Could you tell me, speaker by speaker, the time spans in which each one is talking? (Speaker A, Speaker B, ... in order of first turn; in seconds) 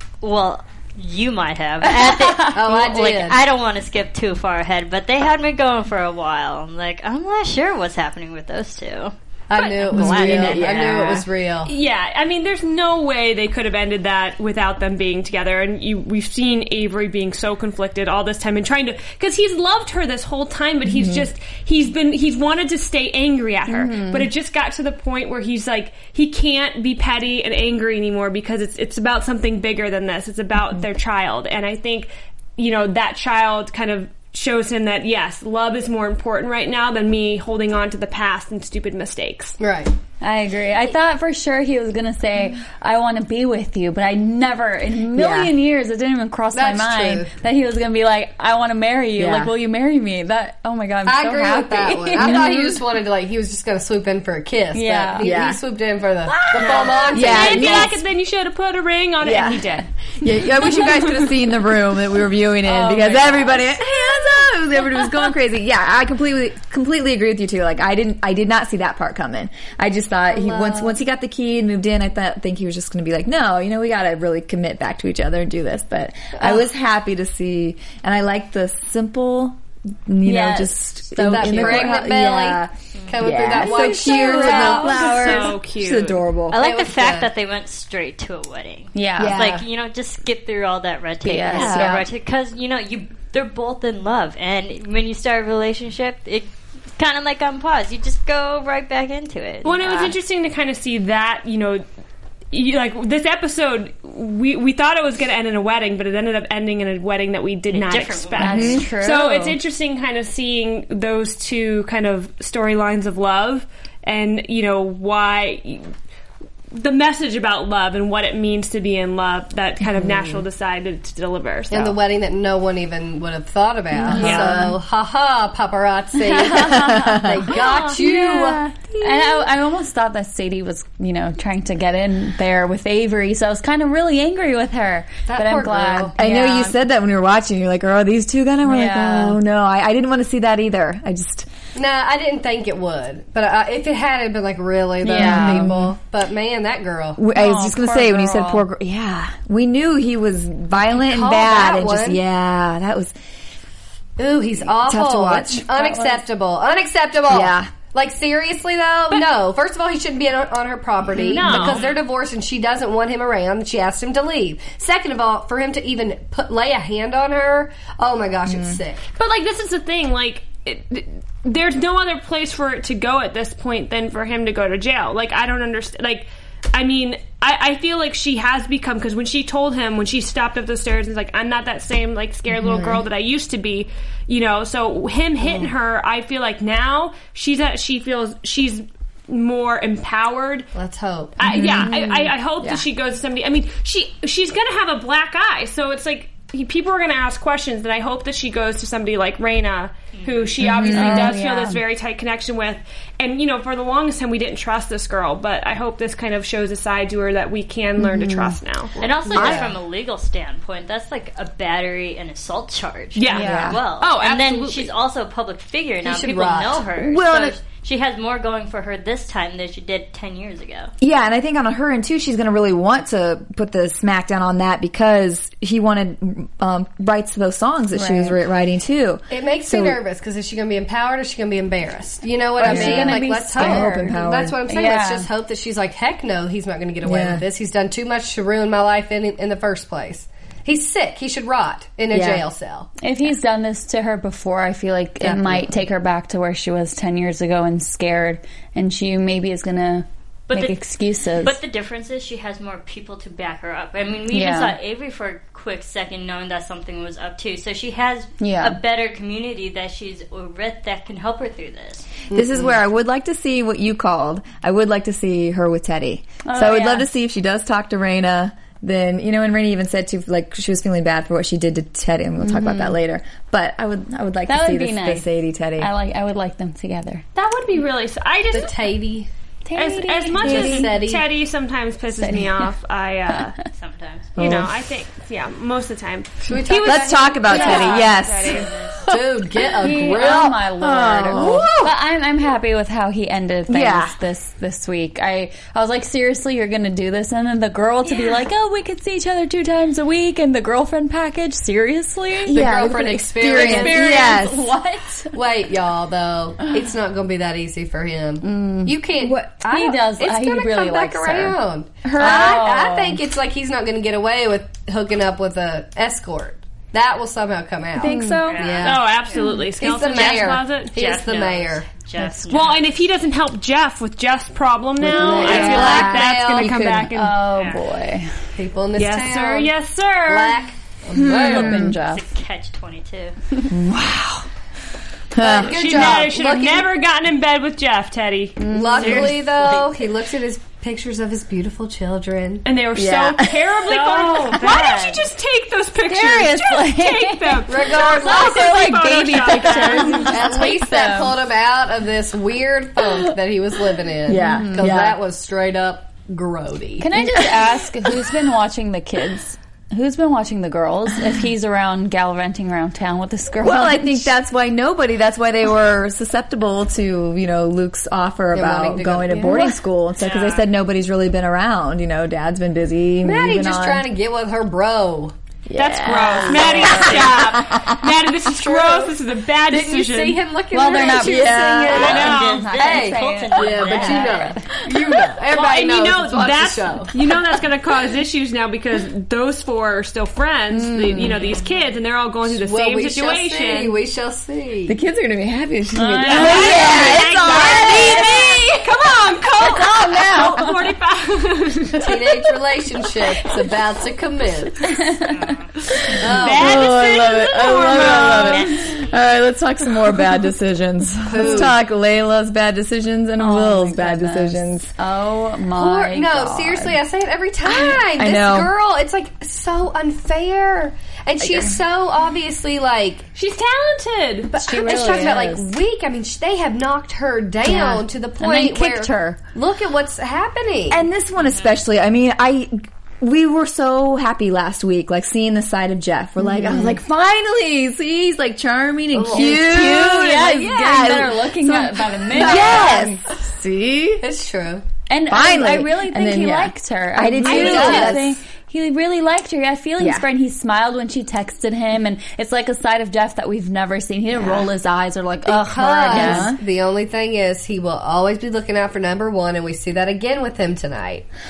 Speaker A: 0.2-11.2, 83.0-83.4, 86.5-100.2, 107.7-108.9, 161.6-162.0, 200.2-200.5, 209.0-220.9, 250.5-250.8, 251.4-262.2, 283.7-284.4, 288.5-289.1, 318.4-323.0, 327.5-327.9, 332.0-333.4, 339.0-340.1, 370.2-370.7, 381.9-384.6, 391.4-391.7, 405.2-405.7, 407.8-409.1, 431.4-431.8
Speaker B: 1.8-2.6, 23.7-24.3, 40.2-52.8, 54.7-55.3, 56.3-57.4, 62.7-63.8, 80.2-82.0, 83.6-85.4, 89.0-89.4, 91.2-92.1, 108.4-109.6, 126.2-136.8, 138.7-139.4, 145.0-145.7, 147.3-148.7, 155.6-156.2, 191.4-192.3, 200.6-201.8, 208.2-208.5, 213.3-213.8, 227.9-228.4, 232.6-234.1, 234.7-235.3, 243.0-251.6, 254.3-254.8, 258.4-258.8, 266.4-267.1, 272.4-273.0, 274.5-277.2, 279.6-280.9, 282.2-282.7, 283.3-283.6, 289.8-305.4, 308.4-313.2, 318.0-318.7, 325.1-326.3, 327.1-328.3, 331.2-332.2, 338.6-339.4, 344.1-345.1, 346.1-351.4, 354.3-354.9, 357.0-364.3, 376.0-377.4, 380.7-384.7, 390.7-391.5, 395.9-397.2, 397.8-398.4, 400.2-400.7, 404.9-405.4, 411.4-411.7, 413.4-417.0, 424.5-425.7, 427.6-429.4, 436.4-437.0, 439.3-443.2, 445.1-456.5
Speaker C: 2.5-3.5, 9.5-11.7, 39.6-39.9, 46.5-47.3, 51.0-58.0, 70.3-70.9, 81.2-84.8, 86.6-87.3, 121.7-129.4, 135.3-136.1, 141.8-147.2, 150.9-152.2, 154.2-169.0, 190.8-191.4, 209.0-209.8, 216.0-216.9, 229.3-242.9, 262.3-262.8, 278.5-279.3, 280.4-281.3, 286.4-290.6, 291.3-291.9, 302.5-304.4, 305.3-319.1, 319.8-321.9, 325.0-326.9, 328.6-329.7, 330.3-331.9, 335.4-336.9, 338.7-342.6, 347.7-348.6, 350.3-357.1, 368.5-369.7, 373.2-375.3, 376.6-377.3, 378.4-379.2, 379.7-387.1, 392.4-395.0, 401.9-405.0, 406.2-406.9, 411.3-411.8, 415.8-423.3, 424.5-431.1, 439.1-439.7, 442.3-443.1, 444.2-444.9, 447.4-448.2, 455.5-461.3
Speaker D: 9.9-11.2, 20.9-21.3, 45.1-45.5, 49.2-49.5, 52.2-52.7, 55.2-55.6, 57.1-58.0, 59.2-86.6, 89.2-89.7, 91.5-92.0, 108.4-108.9, 120.0-120.4, 124.0-124.8, 126.6-127.4, 136.2-141.5, 145.1-145.9, 147.2-153.1, 154.7-155.7, 157.3-157.7, 161.2-161.4, 168.5-168.8, 182.5-183.0, 191.5-192.9, 200.6-201.4, 209.3-209.7, 213.4-213.8, 217.0-217.6, 221.0-230.0, 232.6-234.6, 237.1-237.4, 242.1-242.4, 245.2-245.8, 262.3-275.9, 284.4-284.7, 286.8-288.6, 290.1-291.9, 293.7-294.2, 302.5-304.7, 309.2-309.5, 312.1-312.8, 318.0-318.5, 325.0-326.1, 326.6-327.1, 331.2-331.9, 333.7-334.5, 335.3-336.2, 342.9-344.8, 354.3-355.2, 357.2-357.6, 363.6-374.1, 375.7-378.0, 380.9-382.3, 394.9-398.8, 399.6-400.7, 406.3-414.9, 418.1-418.7, 421.4-421.7, 430.9-444.2, 445.3-448.4, 450.0-450.3, 456.1-456.6
Speaker E: 11.7-39.6, 56.6-59.9, 84.2-86.2, 99.6-101.8, 102.5-115.9, 116.7-122.0, 124.2-124.7, 127.6-128.0, 161.2-161.9, 169.2-190.7, 191.4-209.0, 213.2-214.9, 277.4-278.9, 279.7-283.6, 284.4-288.7, 318.8-320.9, 322.5-327.4, 329.0-330.7, 335.6-339.2, 342.6-350.3, 375.8-380.4, 382.0-382.7, 385.5-394.0, 396.2-402.2, 406.3-408.8, 423.4-424.6, 447.5-448.1